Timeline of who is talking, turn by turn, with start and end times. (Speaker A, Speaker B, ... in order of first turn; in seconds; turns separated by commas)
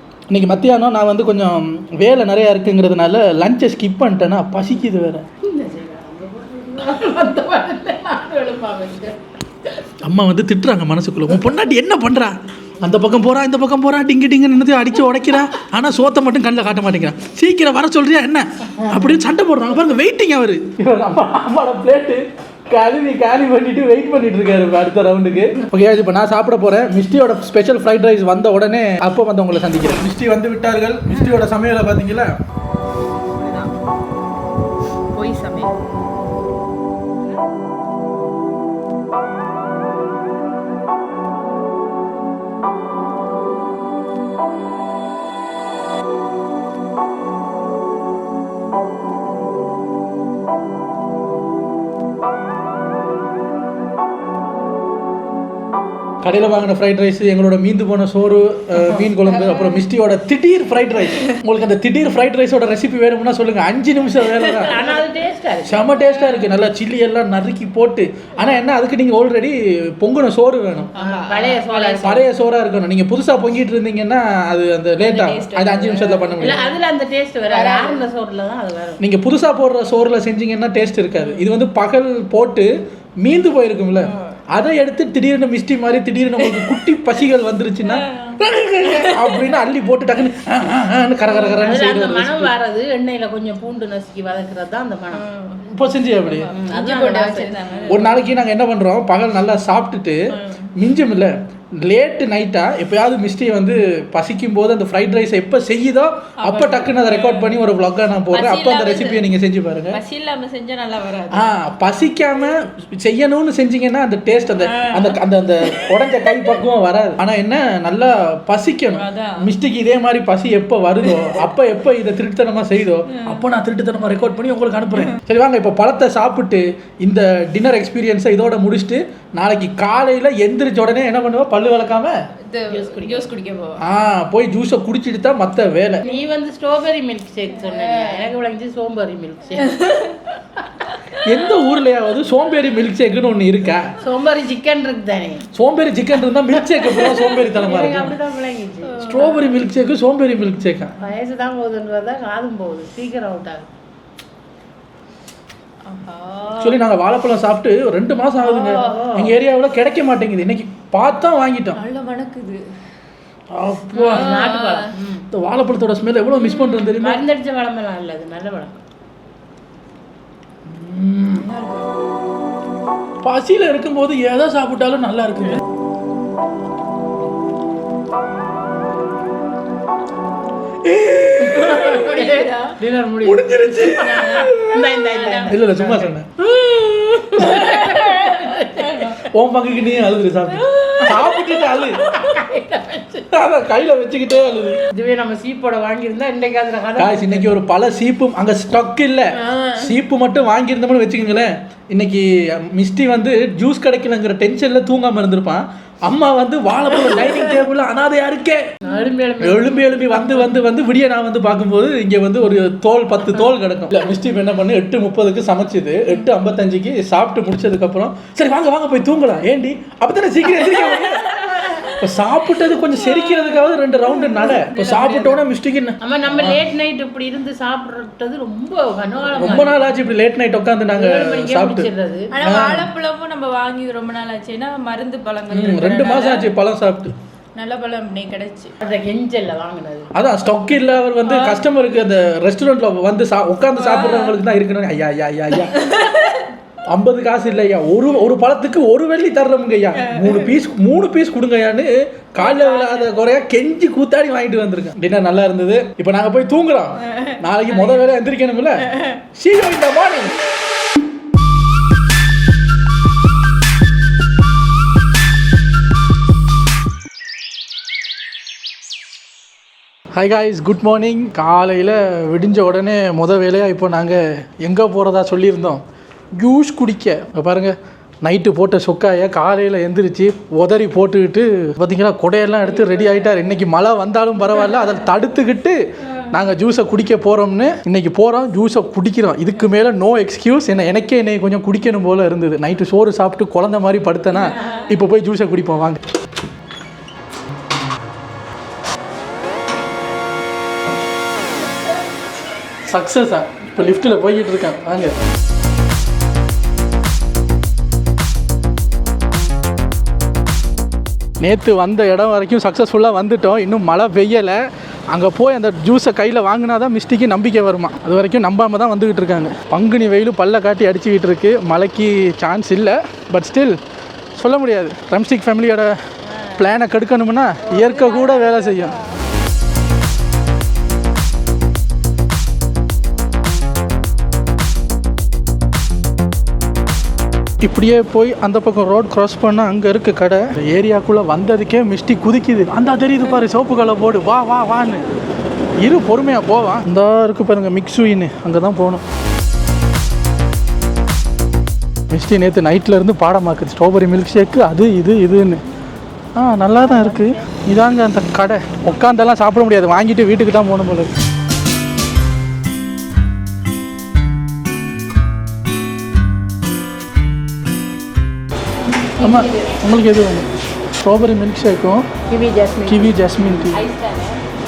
Speaker A: 0.3-5.2, Speaker B: 5.4-9.2, Speaker A: 10.0-32.3, Speaker C: 33.4-33.7, Speaker C: 35.1-35.7, Speaker A: 56.2-64.9, Speaker C: 59.4-59.8, Speaker B: 64.5-66.0, Speaker A: 65.7-70.9, Speaker C: 66.2-66.4, Speaker C: 71.0-72.1, Speaker B: 71.0-72.2, Speaker A: 72.0-76.7, Speaker C: 75.0-76.7, Speaker B: 76.4-79.0, Speaker C: 77.5-78.0, Speaker A: 79.0-92.5, Speaker C: 81.2-81.5, Speaker C: 87.8-89.5, Speaker B: 91.5-95.3, Speaker C: 95.1-98.2, Speaker A: 95.7-96.5, Speaker B: 96.5-97.6, Speaker A: 97.8-100.2, Speaker C: 100.3-100.7, Speaker A: 100.8-110.0, Speaker C: 106.4-107.5, Speaker C: 108.3-109.3, Speaker C: 109.9-111.6, Speaker A: 111.3-132.1, Speaker C: 114.6-115.2, Speaker C: 118.9-119.5, Speaker C: 121.0-121.4, Speaker C: 123.1-123.4, Speaker C: 132.5-133.8, Speaker B: 132.7-133.3, Speaker A: 133.8-136.1, Speaker B: 136.0-139.8, Speaker C: 137.6-138.3, Speaker C: 139.6-140.2, Speaker A: 141.2-144.0, Speaker B: 144.0-145.4, Speaker A: 145.5-148.2, Speaker B: 146.7-149.1, Speaker C: 148.9-149.6, Speaker A: 149.0-151.0, Speaker B: 151.0-153.7, Speaker C: 155.8-156.8, Speaker A: 156.6-161.8, Speaker B: 158.4-159.4, Speaker C: 161.8-162.7, Speaker A: 163.5-164.4, Speaker C: 163.9-164.9, Speaker B: 164.1-165.3, Speaker A: 165.3-167.2, Speaker C: 166.3-167.0, Speaker B: 167.0-168.8, Speaker A: 170.7-171.4, Speaker C: 171.4-171.9, Speaker A: 173.2-175.6, Speaker A: 180.8-182.1, Speaker B: 181.4-189.3, Speaker C: 181.9-182.8, Speaker A: 183.2-186.5, Speaker A: 187.2-188.5, Speaker A: 189.1-192.0, Speaker C: 190.7-191.1, Speaker B: 191.1-193.2, Speaker A: 193.3-194.8, Speaker B: 194.9-197.6, Speaker A: 197.0-208.7, Speaker B: 208.8-210.5, Speaker A: 209.4-226.6, Speaker C: 222.9-225.4, Speaker B: 226.0-229.9, Speaker A: 229.4-232.9, Speaker B: 230.9-232.3, Speaker C: 232.3-236.5, Speaker A: 235.5-237.1, Speaker C: 237.6-238.7, Speaker B: 238.8-240.1, Speaker A: 240.1-245.9, Speaker C: 241.2-241.6, Speaker C: 243.7-244.4, Speaker C: 245.7-246.5, Speaker A: 246.9-260.4, Speaker C: 250.1-250.5, Speaker C: 252.4-253.1, Speaker C: 257.2-258.0, Speaker A: 270.1-275.8, Speaker A: 276.4-296.0, Speaker A: 302.9-305.1, Speaker A: 311.4-323.8, Speaker A: 324.4-326.0, Speaker B: 326.2-326.6, Speaker A: 326.5-329.0, Speaker C: 327.7-329.1, Speaker A: 337.6-345.1, Speaker A: 345.8-349.0, Speaker A: 352.1-355.6, Speaker A: 356.4-361.1, Speaker B: 356.8-357.6, Speaker A: 369.2-370.4, Speaker A: 371.0-372.0, Speaker B: 372.3-374.4, Speaker A: 372.9-373.8